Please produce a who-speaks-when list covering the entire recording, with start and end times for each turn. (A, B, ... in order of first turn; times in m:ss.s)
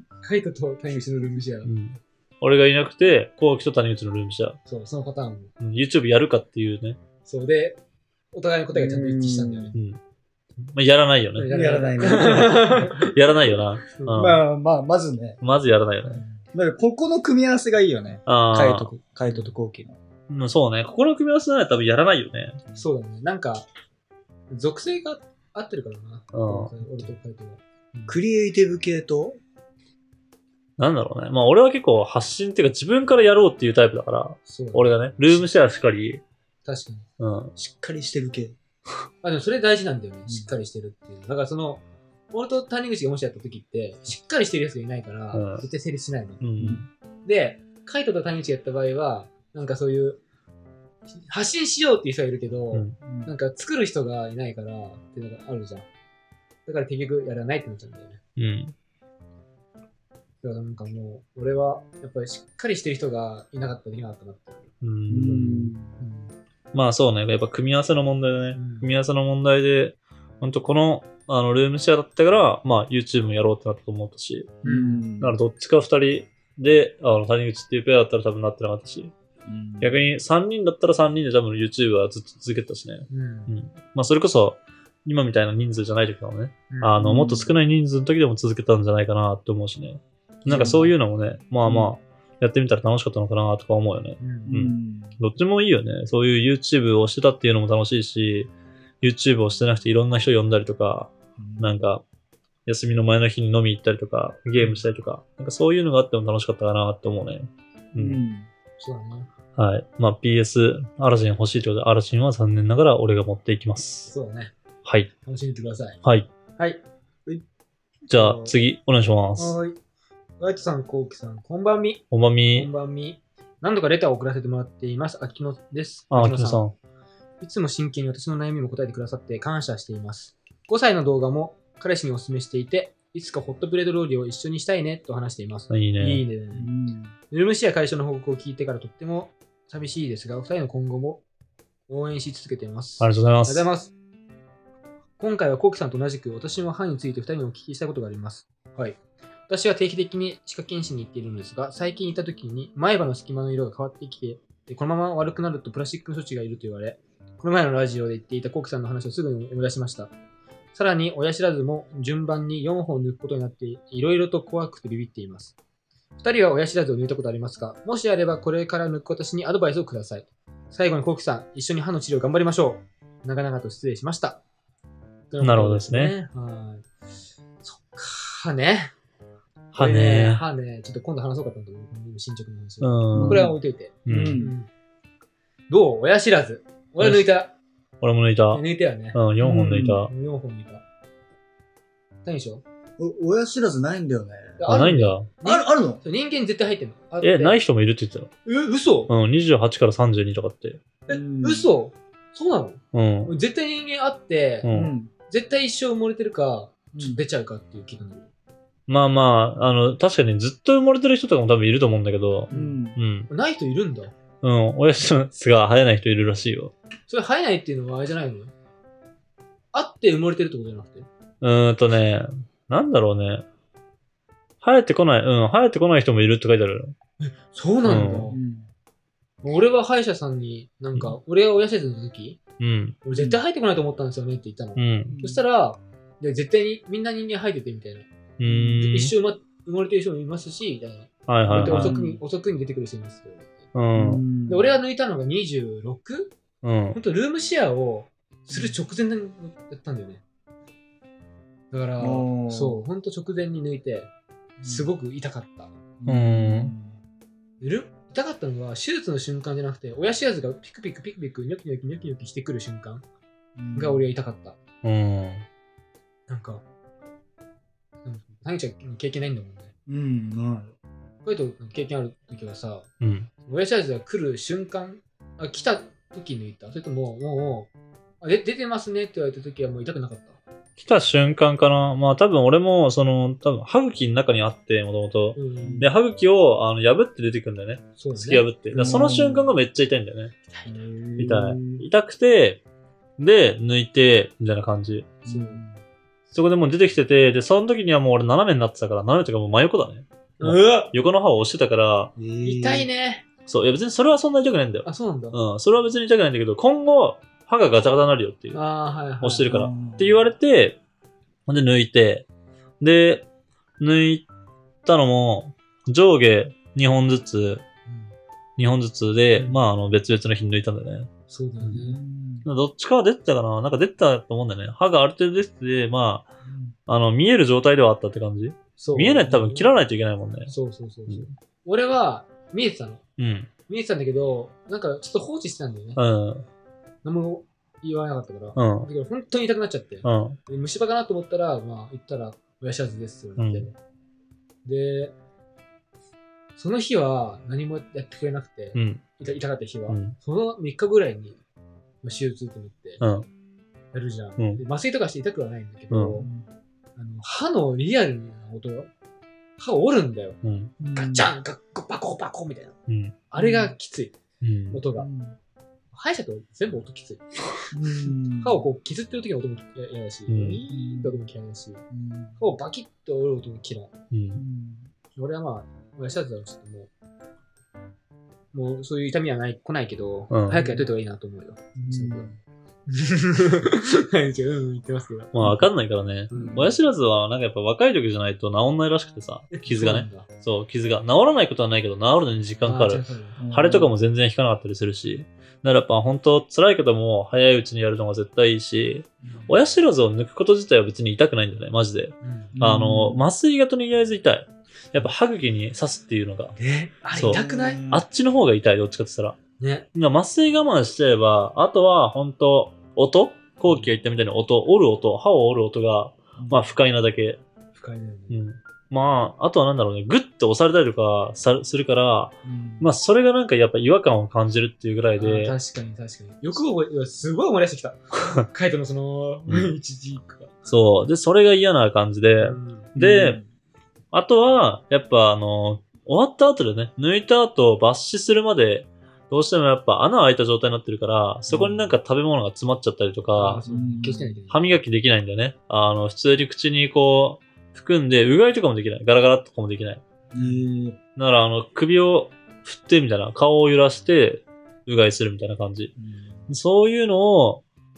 0:00.2-0:01.7 A
0:01.6-0:04.6 B
0:04.7-0:05.5 A
0:05.6-0:07.0 B
0:07.2-0:07.8 A
0:08.3-0:09.8 A
0:08.7-0:09.7 C
0:09.7-0:10.0 B
0:10.6-0:11.5 B
0:11.4-0:13.0 A
0:11.5-0:12.9 C
0:12.1-0:14.4 B
0:13.9-0:14.2 A
0:14.1-0:15.4 C
0:15.4-0:16.2 B
0:16.0-0:16.4 A
0:16.5-0:20.0 C
0:18.3-0:18.9 B
0:19.3-0:19.6 A
0:20.3-0:22.6 B
0:22.8-0:23.7 A
0:24.5-0:28.2 A
0:26.3-0:26.9 B
0:28.1-0:29.4 C
0:30.8-0:36.2 B
0:34.5-0:35.5 A
0:36.6-0:37.1 A
0:37.2-0:37.5 B
0:37.6-0:38.6 C
0:39.2-0:46.4 A
0:45.3-0:45.6 B
0:46.4-0:46.9 B
0:46.6-0:46.8 C
0:47.2-0:50.2 A
0:51.1-0:55.9 A
0:52.7-0:53.0 B
0:53.0-0:53.3 C
0:56.7-0:58.2 A
0:58.4-0:58.7 B
1:00.4-1:04.7 A
1:04.8-1:05.8 B
1:05.1-1:06.0 C
1:06.0-1:06.3 A
1:06.7-1:14.6 B
1:08.5-1:09.0 A
1:14.6-1:15.4 C
1:14.6-1:15.1 A
1:15.2-1:19.1 B
1:19.5-1:20.1 C
1:19.8-1:42.0 B
1:23.1-1:23.5 A
1:26.7-1:27.0 A
1:27.0-1:27.5 C
1:30.5-1:30.9 C
1:30.5-1:31.0 A
1:31.6-1:31.9 C
1:34.2-1:34.6 A
1:34.5-1:35.2 C
1:41.4-1:41.8 C
1:42.7-1:48.2 B
1:48.0-1:48.5 C
1:48.8-1:49.3 A
1:49.6-1:54.1 B
1:54.1-1:54.5 A
1:54.8-1:55.1 B
1:55.2-1:56.0 A
1:56.0-1:56.3 B
1:56.6-1:56.8 A
1:58.1-1:58.5 C
1:58.1-1:59.6 B
1:59.4-1:59.8 A
2:00.4-2:06.6 A
2:02.1-2:02.7 B
2:06.1-2:06.8 B
2:07.4-2:16.7 A
2:15.7-2:16.2 B
2:16.6-2:17.1 C
2:17.3-2:21.2 A
2:21.9-2:23.9 A
2:23.0-2:23.6 B
2:25.2-2:40.1 A
2:40.7-2:45.6 A
2:46.2-2:54.4 A
2:55.3-2:56.9 A
2:55.4-2:56.2 B
2:57.6-2:58.9 A
2:59.7-3:00.4 B
2:59.8-3:04.7 A
3:02.8-3:03.5 B
3:03.2-3:03.6 C
3:04.1-3:04.4 B
3:04.1-3:04.5 C
3:05.7-3:07.5 A
3:07.0-3:07.3 B
3:08.0-3:08.6 B
3:08.5-3:09.2 A
3:09.1-3:10.1 B
3:09.4-3:10.0 C
3:09.8-3:10.8 A
3:12.2-3:12.6 A
3:13.0-3:14.6 C
3:14.6-3:17.6 A
3:14.7-3:15.3 B
3:15.4-3:16.0 C
3:17.2-3:18.3 B
3:18.4-3:19.1 A
3:19.1-3:20.8 B
3:21.1-3:24.7 A
3:21.1-3:21.7 C
3:22.9-3:23.3 B
3:24.6-3:24.9 B
3:24.7-3:25.1 C
3:25.3-3:28.3 A
3:28.9-3:33.3 B
3:32.5-3:33.0 C
3:33.3-3:34.1 A
3:34.4-3:36.7 B
3:37.1-3:38.5 A
3:39.7-3:41.1 A
3:41.4-3:43.4 B
3:44.6-3:47.0 B
3:47.2-3:48.4 A
3:47.8-3:48.3 B
3:48.0-3:48.7 C
3:49.4-3:52.4 A
3:52.6-3:53.0 B
3:53.0-3:58.1 A
3:53.2-3:53.4 C
3:54.8-3:55.2 B
3:55.1-3:55.4 C
3:58.4-3:59.1 B
3:58.4-3:58.8 C
3:58.8-4:03.6 A
4:01.3-4:02.0 B
4:01.5-4:02.2 C
4:03.7-4:04.2 B
4:04.0-4:04.8 C
4:04.4-4:06.4 A
4:06.6-4:07.0 B
4:06.9-4:10.2 A
4:11.7-4:14.1 A
4:12.0-4:12.8 C
4:14.6-4:14.9 C
4:14.6-4:15.8 A
4:16.0-4:17.0 C
4:16.1-4:16.8 B
4:17.6-4:23.0 A
4:23.6-4:24.1 C
4:23.8-4:24.6 A
4:24.8-4:25.4 B
4:26.3-4:26.6 A
4:28.0-4:29.7 A
4:29.9-4:30.8 C
4:31.2-4:32.9 A
4:33.0-4:33.3 B
4:33.4-4:37.7 A
4:38.2-4:40.4 A
4:40.8-4:50.3 B
4:45.4-4:45.9 A
4:45.6-4:45.9 C
4:48.0-4:48.4 A
4:48.7-4:49.5 C
4:50.7-4:51.8 C
4:51.2-4:52.6 B
4:53.2-4:55.1 B
4:55.2-4:55.7 C
4:55.3-4:55.7 A
4:56.3-5:02.1 B
5:00.4-5:01.0 A
5:02.2-5:02.9 C
5:02.4-5:03.3 A
5:03.5-5:08.6 B
5:04.8-5:05.4 A
5:08.5-5:09.5 A
5:09.2-5:10.8 B
5:09.5-5:10.3 C
5:11.5-5:12.3 B
5:12.8-5:13.3 B
5:13.8-5:14.3 B
5:14.8-5:17.6 B
5:17.9-5:18.1 A
5:18.6-5:21.1 B
5:21.3-5:22.0 A
5:21.7-5:22.5 C
5:22.4-5:26.3 B
5:26.4-5:26.7 C
5:26.9-5:30.5 B
5:28.8-5:29.7 A
5:30.5-5:33.0 A
5:33.2-5:33.5 B
5:33.7-5:36.0 A
5:36.0-5:36.4 B
5:37.0-5:43.8 A
5:38.6-5:38.9 B
5:40.0-5:40.4 B
5:43.4-5:43.7 B
5:44.6-5:45.2 A
5:46.6-5:51.4 A
5:48.8-5:49.0 B
5:49.9-5:50.2 B
5:52.0-5:53.0 A
5:53.0-5:53.3 B
5:53.9-5:56.3 A
5:55.9-5:56.2 B
5:56.1-5:56.5 C
5:57.0-5:58.9 A
5:59.6-6:00.4 A
6:00.4-6:00.7 B
6:00.8-6:01.3 C
6:01.0-6:02.7 A
6:02.9-6:03.2 B
6:03.3-6:04.2 A
6:03.4-6:03.7 C
6:04.4-6:04.8 B
6:04.7-6:05.1 A
6:05.0-6:05.4 C
6:05.9-6:07.3 A
6:07.7-6:08.6 C
6:08.4-6:11.8 A
6:10.3-6:10.6 B
6:10.7-6:11.3 C
6:11.9-6:12.4 C
6:12.4-6:13.9 A
6:14.1-6:14.4 B
6:14.4-6:14.9 C
6:15.2-6:16.9 A
6:18.5-6:22.3 A
6:20.3-6:20.8 B
6:21.8-6:22.4 C
6:22.9-6:25.6 A
6:25.3-6:46.6 B
6:26.3-6:26.8 A
6:26.3-6:26.7 C
6:29.5-6:30.3 A
6:32.6-6:33.4 A
6:33.4-6:33.9 C
6:42.2-6:42.6 A
6:42.5-6:43.2 C
6:46.6-6:47.8 A
6:47.1-6:49.4 B
6:47.1-6:48.0 C
6:49.6-6:49.9 A
6:49.9-6:57.4 B
6:56.4-6:56.7 C
6:57.7-6:58.4 A
6:58.3-7:05.6 B
7:02.4-7:02.9 C
7:05.2-7:10.5 A
7:09.5-7:09.7 B
7:10.7-7:13.4 B
7:12.4-7:13.0 A
7:13.0-7:13.5 C
7:14.1-7:23.6 B
7:23.4-7:24.8 A
7:23.7-7:24.4 C
7:24.5-7:30.5 B
7:30.3-7:31.0 C
7:31.2-7:35.9 B
7:36.0-7:36.5 C
7:36.5-7:37.6 B